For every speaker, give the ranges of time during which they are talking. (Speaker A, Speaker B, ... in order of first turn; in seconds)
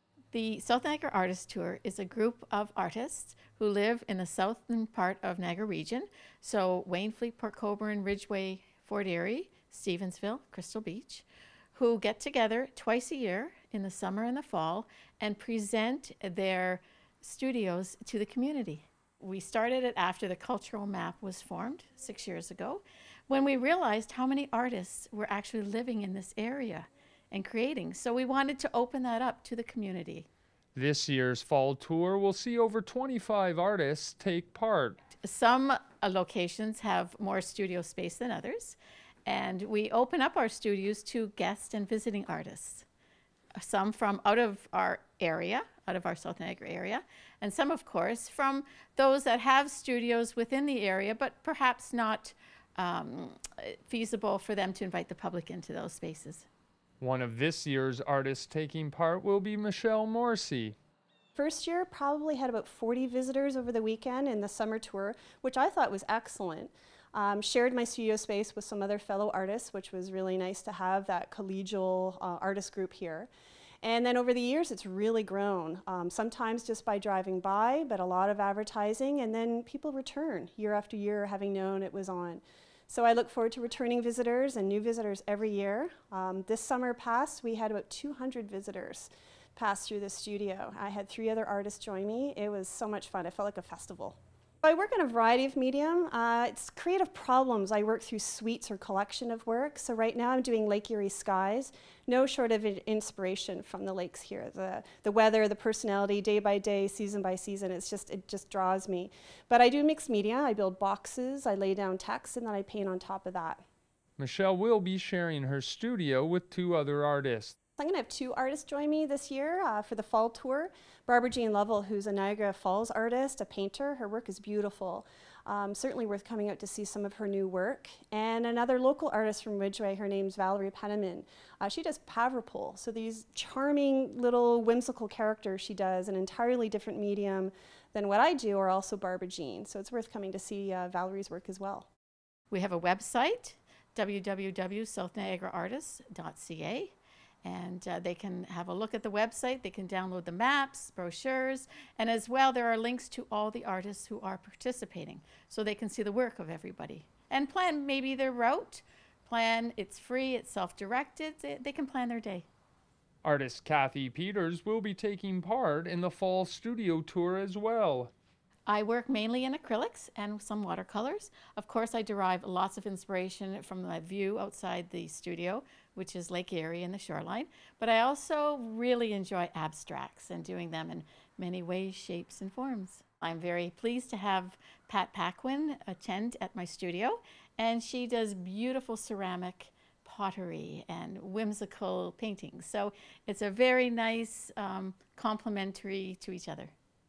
Speaker A: 0.3-30.3, 35.1-42.9, 43.5-56.5, 142.5-162.5, 168.7-196.7
Speaker B: 30.7-35.0, 57.0-60.8, 114.2-117.5, 163.2-168.1
Speaker C: 61.4-73.3, 73.8-113.6, 117.8-141.9